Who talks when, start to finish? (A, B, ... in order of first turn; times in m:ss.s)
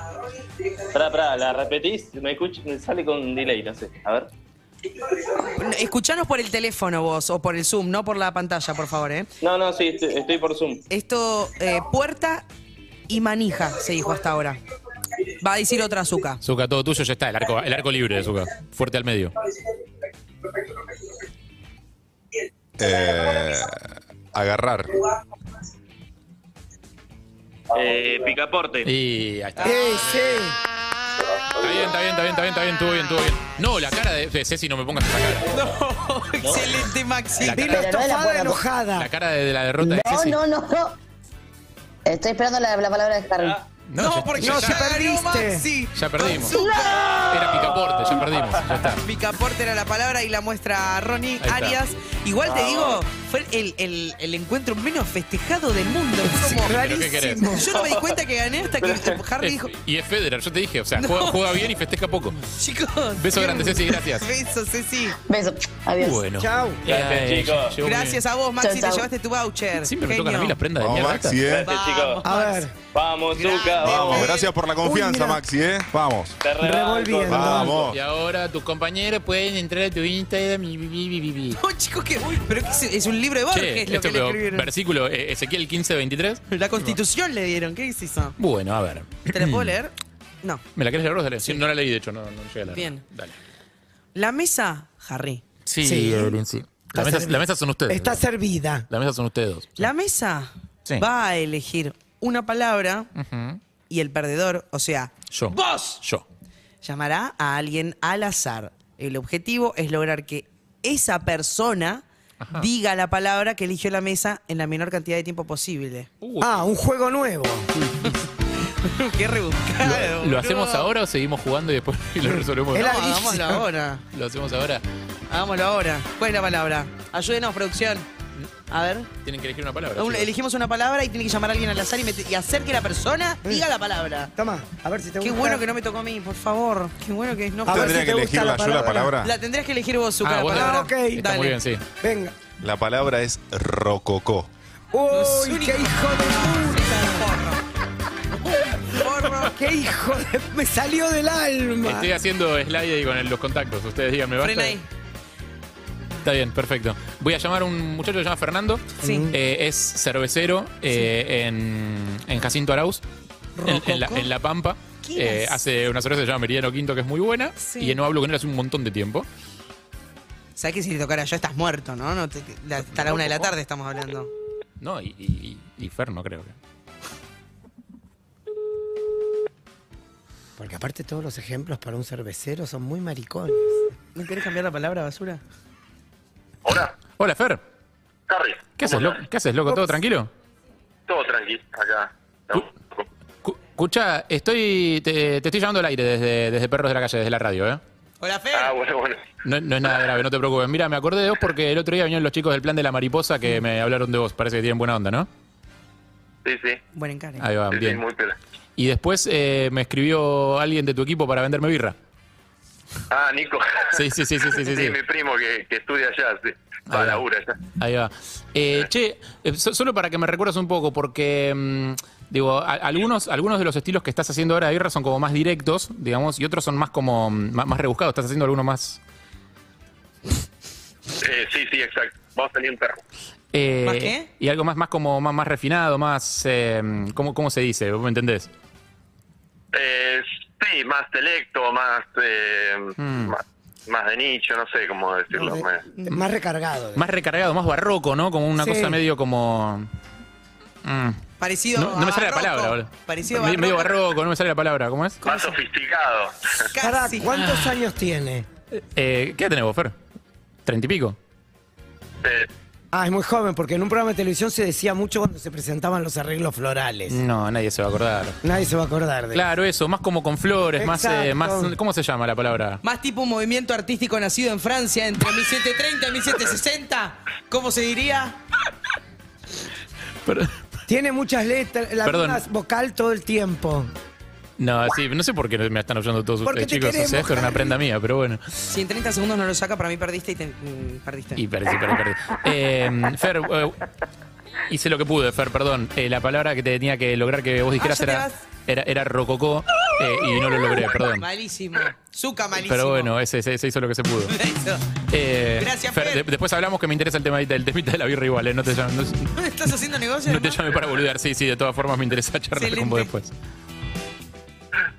0:00.8-0:04.3 A
0:05.4-0:09.3 B
0:09.4-0:10.8 A
0:10.9-0:12.5 B
0:13.1-0:14.6 B
0:15.4-0:16.4 B
0:16.4-0:19.4 C
0:22.8-0:25.0 D
0:27.7-0:28.9 A
0:28.8-0:30.6 C
0:29.6-0:30.6 E
0:31.5-0:35.5 C
0:35.5-0:37.8 B
0:36.4-0:36.7 A
0:37.4-0:37.7 C
0:37.4-0:39.1 E
0:37.7-0:38.6 F
0:39.0-0:40.4 C
0:39.8-0:41.0 F
0:42.0-0:43.6 F
0:43.4-0:43.6 A
0:43.9-0:44.8 C
0:44.0-0:47.3 B
0:44.4-0:45.7 E
0:46.0-0:46.6 C
0:46.5-0:47.5 F
0:47.3-0:49.0 C
0:47.7-0:48.4 A
0:49.0-0:56.8 B
0:51.4-0:51.8 C
0:52.5-0:53.0 A
0:56.3-0:57.7 E
0:56.7-0:57.5 C
0:57.5-0:59.7 B
0:57.8-0:58.1 A
0:58.8-0:59.2 A
0:59.4-1:02.4 C
1:01.0-1:01.6 B
1:02.5-1:05.2 B
1:03.2-1:04.3 C
1:05.2-1:06.2 F
1:06.0-1:08.2 C
1:06.4-1:06.8 E
1:06.9-1:07.8 A
1:07.8-1:10.6 B
1:08.6-1:09.1 F
1:09.8-1:11.4 C
1:10.8-1:11.7 D
1:11.4-1:12.2 A
1:11.6-1:12.7 B
1:12.2-1:12.8 E
1:12.9-1:14.3 A
1:13.4-1:14.5 B
1:13.8-1:16.4 D
1:14.8-1:15.4 E
1:16.4-1:17.4 A
1:16.6-1:17.8 E
1:17.3-1:18.0 D
1:17.4-1:21.6 C
1:21.6-1:24.7 B
1:23.5-1:27.0 C
1:26.5-1:28.4 B
1:28.4-1:29.8 C
1:29.3-1:30.6 B
1:30.8-1:33.4 C
1:32.7-1:33.0 B
1:34.2-1:35.4 B
1:35.7-1:38.2 C
1:35.8-1:36.4 E
1:36.9-1:38.9 E
1:38.9-1:39.9 C
1:39.8-1:43.1 B
1:43.2-1:43.6 C
1:43.9-1:45.1 B
1:45.3-1:46.2 C
1:45.5-1:46.0 E
1:46.8-1:56.1 B
1:52.4-1:52.7 C
1:56.2-1:56.5 C
1:56.4-1:57.7 E
1:58.0-2:00.9 B
1:59.8-2:03.4 C
2:02.2-2:03.6 E
2:02.8-2:04.0 B
2:04.1-2:04.8 C
2:05.3-2:08.1 B
2:08.7-2:09.1 B
2:09.2-2:10.3 C
2:10.0-2:14.3 B
2:14.4-2:15.6 E
2:15.2-2:18.1 B
2:17.7-2:19.1 E
2:17.7-2:19.4 D
2:19.2-2:21.6 B
2:20.2-2:21.8 C
2:20.5-2:21.3 E
2:22.0-2:22.4 E
2:22.6-2:24.5 D
2:24.9-2:27.3 E
2:25.1-2:27.6 B
2:28.6-2:29.6 B
2:29.4-2:32.1 E
2:31.8-2:34.8 C
2:34.4-2:34.9 B
2:36.2-2:43.0 C
2:39.0-2:39.3 B
2:39.0-2:39.4 E
2:43.6-2:44.3 B
2:43.6-2:49.3 C
2:45.0-2:45.6 B
2:47.6-2:48.0 B
2:50.6-2:54.3 B
2:52.9-2:53.5 C
2:54.8-2:56.6 C
3:00.6-3:03.8 E
3:04.2-3:05.4 B
3:06.6-3:07.0 G
3:07.2-3:07.6 C
3:08.3-3:09.2 G
3:08.8-3:10.3 C
3:11.1-3:13.0 G
3:13.4-3:17.8 C
3:18.2-3:18.8 B
3:18.5-3:19.2 G
3:19.4-3:25.3 C
3:26.4-3:26.8 G
3:26.9-3:27.4 B
3:27.4-3:28.0 C
3:27.7-3:28.4 G
3:28.8-3:32.0 C
3:33.1-3:34.0 G
3:33.9-3:35.0 C
3:34.6-3:37.6 G
3:36.9-3:37.2 C
3:37.7-3:49.0 C
3:51.2-3:53.0 G
3:53.5-3:58.5 C
3:53.8-3:54.3 B
3:59.7-4:05.8 G
4:03.0-4:03.3 C
4:05.4-4:07.1 E
4:07.0-4:09.9 C
4:08.6-4:09.0 E
4:10.8-4:11.2 C
4:11.4-4:14.0 B
4:11.8-4:15.2 C
4:15.2-4:15.6 B
4:15.2-4:16.4 G
4:16.7-4:17.3 B
4:16.8-4:18.5 E
4:17.3-4:17.8 C
4:18.7-4:20.0 C
4:20.7-4:21.2 C
4:22.9-4:27.2 E
4:27.1-4:28.4 C
4:28.4-4:29.5 E
4:29.3-4:32.8 C
4:30.8-4:31.7 E
4:32.8-4:38.4 B
4:40.2-4:40.6 C
4:40.9-4:43.9 E
4:42.0-4:42.4 C
4:44.6-4:48.4 C
4:46.4-4:47.8 E
4:48.7-4:51.4 B
4:51.4-4:53.8 C
4:54.7-5:01.3 C
4:57.8-4:58.4 B
5:01.2-5:03.1 B
5:02.6-5:04.4 C
5:04.3-5:04.8 B
5:05.1-5:09.4 C
5:05.6-5:06.2 B
5:09.4-5:10.6 B
5:10.2-5:13.3 C
5:12.6-5:13.1 B